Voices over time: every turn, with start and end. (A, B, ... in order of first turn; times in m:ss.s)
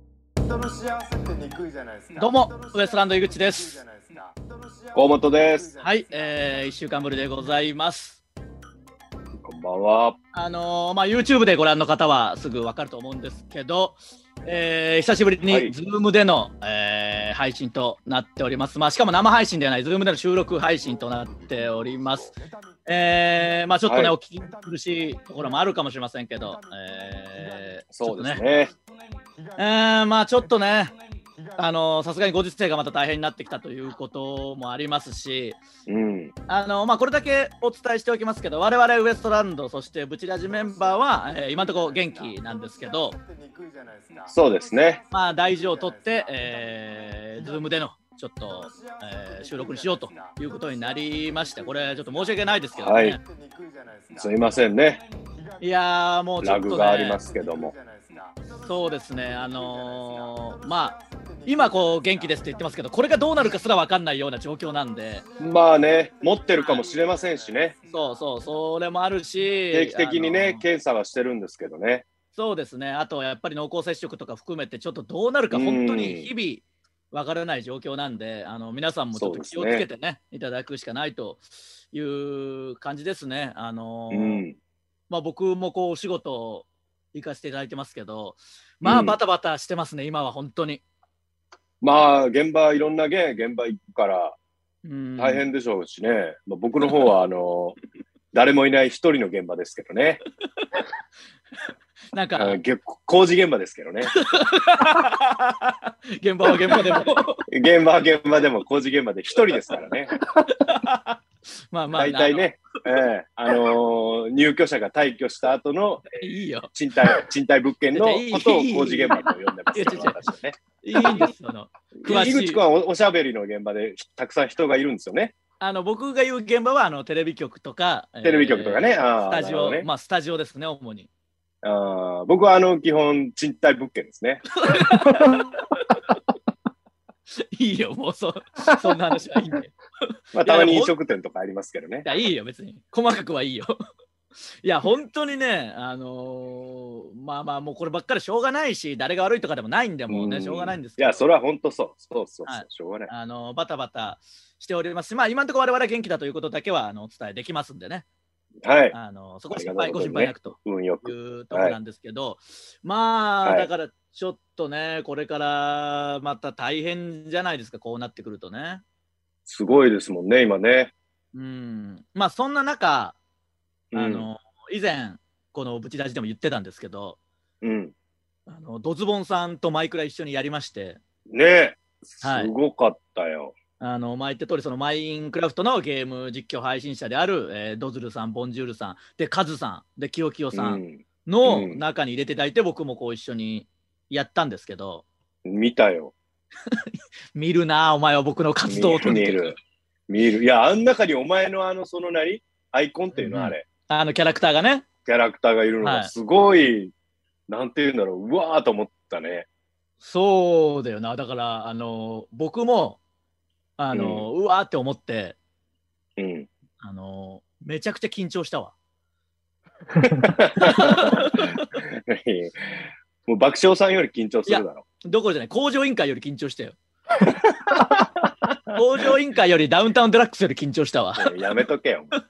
0:00.4-0:07.2 A
0:02.2-0:03.8 B
0:04.9-0:05.7 C
0:05.8-0:08.2 B
0:09.4-0:10.2 C
0:10.3-0:22.3 B
0:15.5-0:15.7 C
0:20.7-0:23.7 A
0:22.8-0:28.4 B
0:23.8-0:24.1 C
0:24.4-0:25.6 A
0:26.4-0:27.8 A
0:27.9-0:28.7 C
0:29.3-0:29.8 A
0:29.6-0:30.9 B
0:30.4-0:31.7 A
0:31.6-0:35.6 B
0:35.9-0:36.3 C
0:36.5-0:43.1 B
0:40.4-0:47.6 A
0:44.3-0:45.0 C
0:45.1-0:53.2 B
0:48.5-0:54.7 A
0:52.8-0:53.2 C
0:54.2-0:55.0 C
0:55.4-0:55.6 A
0:55.6-0:57.2 B
0:56.4-0:57.7 C
0:56.9-1:03.6 A
0:58.6-1:05.2 B
1:04.6-1:08.6 A
1:05.4-1:07.7 C
1:07.9-1:10.6 B
1:09.7-1:12.0 C
1:12.3-1:24.4 B
1:15.5-1:16.3 C
1:19.1-1:19.8 C
1:24.1-1:24.6 C
1:25.1-1:30.8 B
1:28.8-1:29.2 C
1:31.8-1:34.4 C
1:34.8-1:35.4 B
1:35.2-1:37.8 C
1:38.3-1:40.2 C
1:42.1-1:42.6 B
1:42.4-1:44.2 C
1:44.1-1:47.4 B
1:47.5-1:50.1 C
1:50.4-1:52.5 B
1:51.9-1:56.1 C
1:56.1-1:56.7 B
1:56.7-2:01.3 C
1:57.9-2:00.2 B
2:00.8-2:02.6 B
2:02.0-2:05.3 C
2:05.6-2:11.1 B
2:08.2-2:09.9 C
2:11.6-2:14.4 C
2:14.5-2:16.0 B
2:17.4-2:19.7 B
2:20.3-2:22.1 C
2:20.4-2:20.9 B
2:22.0-2:23.7 B
2:24.6-2:31.2 B
2:30.1-2:33.1 C
2:32.4-2:38.0 B
2:38.6-2:39.0 C
2:38.9-2:48.8 B
2:39.5-2:41.8 C
2:49.4-2:50.9 C
2:51.3-2:53.2 B
2:53.9-2:54.3 C
2:53.9-2:57.2 B
2:57.6-2:57.9 C
2:58.5-3:01.0 B
3:01.3-3:03.5 C
3:02.2-3:02.5 B
3:03.8-3:15.0 B
3:10.5-3:11.8 C
3:15.4-3:16.1 C
3:16.7-3:19.6 B
3:18.6-3:19.5 C
3:20.1-3:23.6 C
3:23.1-3:24.8 B
3:25.0-3:26.9 C
3:25.8-3:26.1 B
3:27.5-3:29.5 C
3:30.0-3:33.0 B
3:33.8-3:35.4 B
3:33.9-3:34.2 C
3:36.2-3:36.5 C
3:36.8-3:38.7 B
3:40.0-3:44.8 C
3:40.5-3:41.7 B
3:44.5-3:46.8 B
3:47.4-3:48.6 C
3:48.7-3:51.4 B
3:51.2-3:52.1 C